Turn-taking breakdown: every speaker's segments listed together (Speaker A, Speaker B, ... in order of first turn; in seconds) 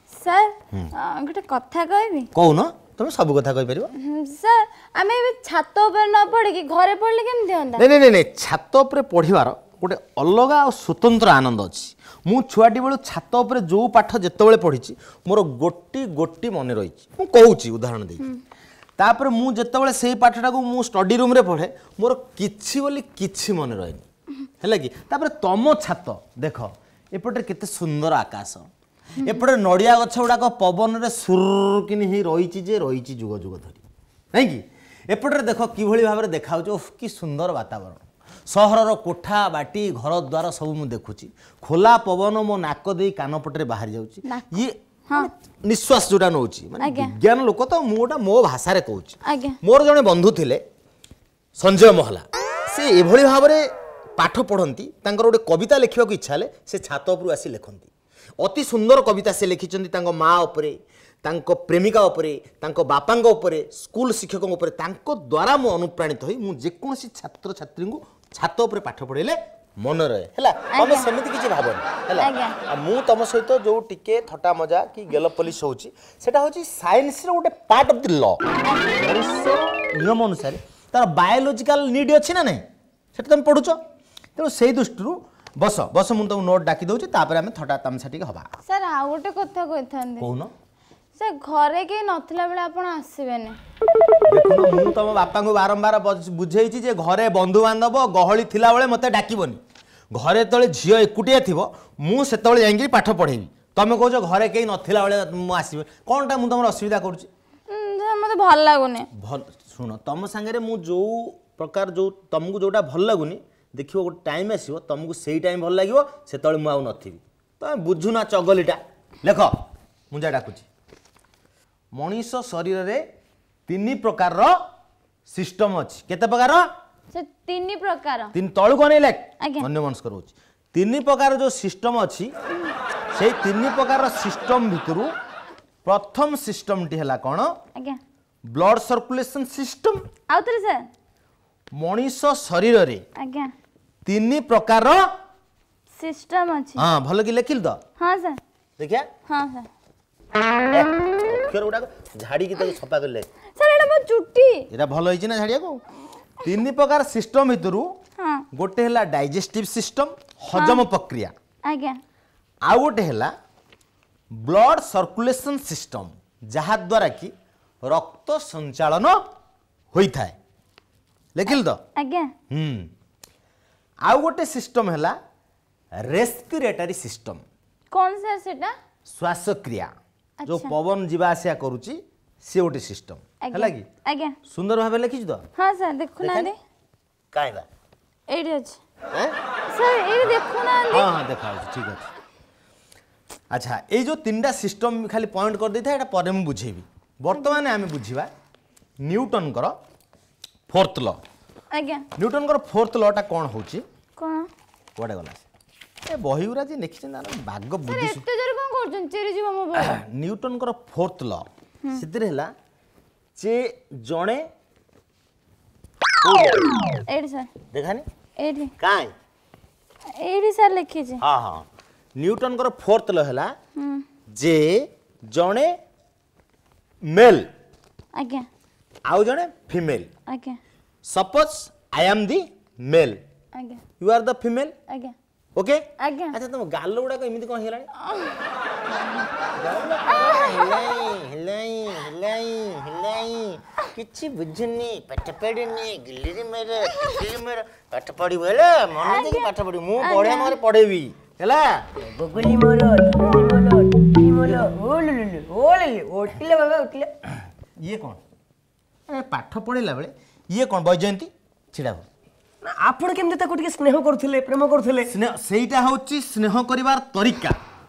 Speaker A: 0.2-2.3, 4.0-7.8, 44.3-45.3, 46.8-47.1, 49.2-49.5, 70.7-71.1, 72.2-72.5, 78.6-79.1, 88.7-90.3, 91.2-93.5, 107.7-109.1, 127.1-128.3, 140.3-140.9, 143.2-143.5, 146.0-146.8, 148.0-148.4, 149.3-149.7, 153.6-154.6, 158.2-158.4, 160.6-160.8, 161.7-162.0, 171.9-172.3, 177.9-178.7, 180.4-180.7, 183.4-184.3, 185.6-186.5, 188.3-188.8, 189.7-191.1, 201.7-202.0, 204.2-204.5, 207.9-210.0, 217.1-217.5, 218.4-218.7, 220.2-221.2, 223.8-224.0, 228.2-228.5, 230.3-230.6, 233.5-233.8, 236.0-236.3, 238.9-239.2, 249.1-249.5, 250.0-250.5
Speaker B: 2.3-3.9, 7.7-18.3, 19.0-24.0, 24.6-33.8, 34.3-50.6, 51.6-53.6, 54.2-78.4, 78.9-82.6, 83.1-83.8, 84.3-88.5, 90.2-90.5, 94.3-99.6, 100.1-107.3, 109.2-119.5, 120.1-120.7, 121.9-123.0, 123.7-124.5, 125.3-126.6, 128.3-132.3, 133.1-135.1, 135.8-137.5, 138.5-140.0, 141.8-143.0, 144.0-145.0, 146.8-147.8, 148.8-149.1, 150.6-153.2, 154.7-155.8, 156.4-157.9, 158.5-161.3, 162.6-163.3, 164.4-167.3, 167.8-169.2, 169.9-170.3, 171.3-171.8, 172.5-172.9, 174.1-175.1, 176.0-177.4, 179.1-179.9, 180.4-183.8, 184.5-185.4, 186.2-186.5, 187.3-187.6, 190.9-192.1, 193.5-198.3, 199.0-199.7, 200.7-201.2, 202.2-203.8, 205.0-205.4, 206.1-208.2, 209.8-212.5, 213.4-214.4, 216.2-216.7, 217.7-218.0, 218.8-219.1, 221.2-221.6, 222.2-223.5, 224.3-225.7, 227.1-227.5, 229.1-230.1, 231.0-233.2, 234.0-234.7, 236.3-237.9, 239.5-251.7, 257.8-258.2, 259.1-262.0, 265.1-267.6
Speaker C: 252.2-257.1, 262.6-265.0